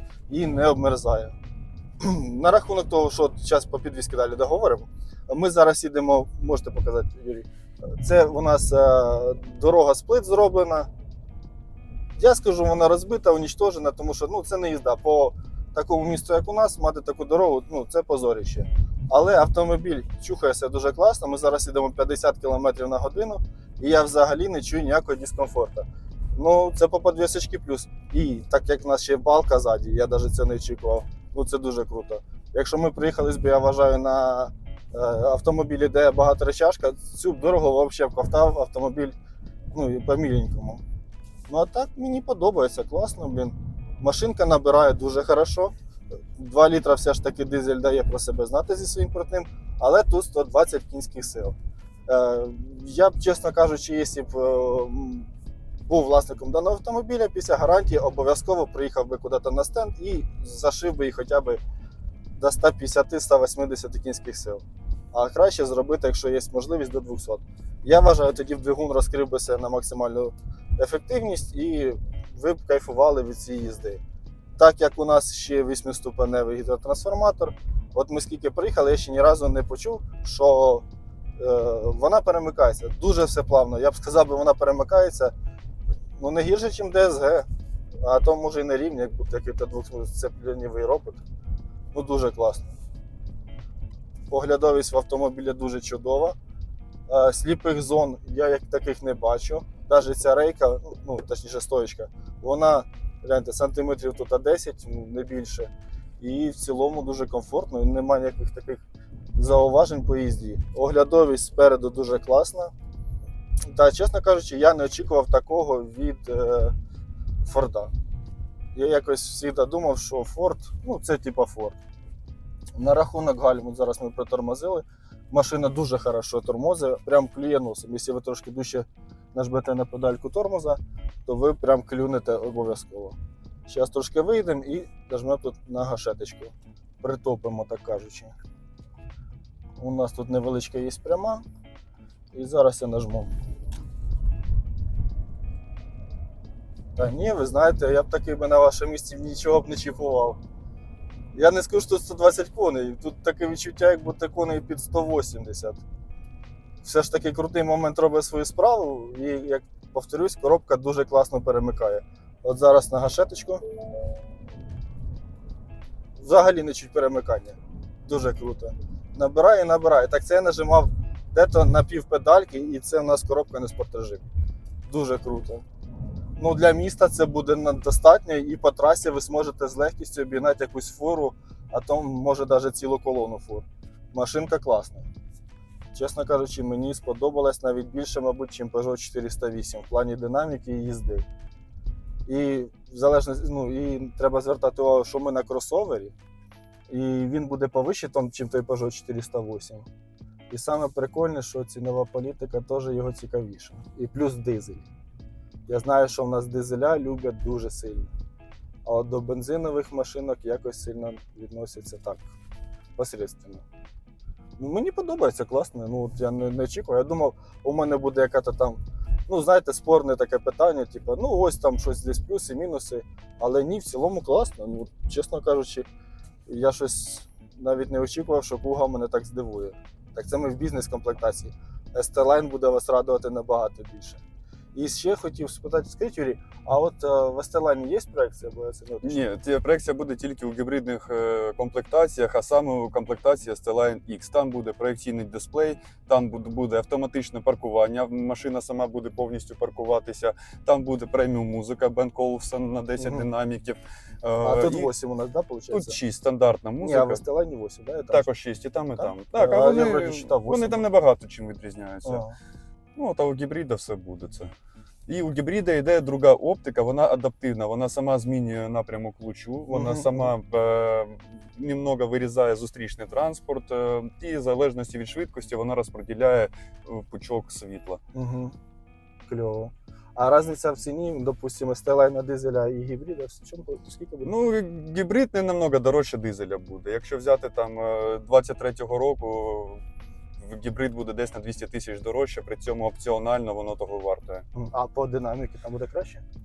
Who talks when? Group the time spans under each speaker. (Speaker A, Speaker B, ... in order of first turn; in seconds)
Speaker A: 0.3-1.3, 2.0-10.9, 12.2-39.1, 39.7-40.8, 41.5-45.7, 46.4-51.6, 52.1-55.3, 55.9-61.6, 62.4-74.0, 74.6-80.9, 81.4-85.3, 86.2-87.5, 88.0-91.2, 91.9-92.7, 94.3-96.4, 97.1-108.8, 109.4-112.7, 113.7-116.8, 117.4-117.9, 118.8-121.8, 122.8-133.2, 133.7-138.3, 139.8-141.4, 142.3-143.3, 147.0-150.4, 151.3-155.8, 156.8-163.6, 166.2-174.3, 174.9-175.6, 176.4-185.1, 185.9-191.3, 192.3-196.2, 196.9-199.9, 200.5-204.9, 205.7-208.1, 208.8-212.3, 213.0-213.6, 214.6-225.9, 226.5-234.2, 234.8-239.2, 253.0-253.3, 254.4-256.0, 256.8-258.3, 259.0-260.9, 262.1-262.4, 269.7-270.3, 278.1-278.6, 279.3-284.3, 294.5-296.2
Speaker B: 239.0-254.9, 255.7-257.2, 258.1-262.2, 263.0-264.5, 265.1-278.0, 284.2-289.8, 290.4-294.4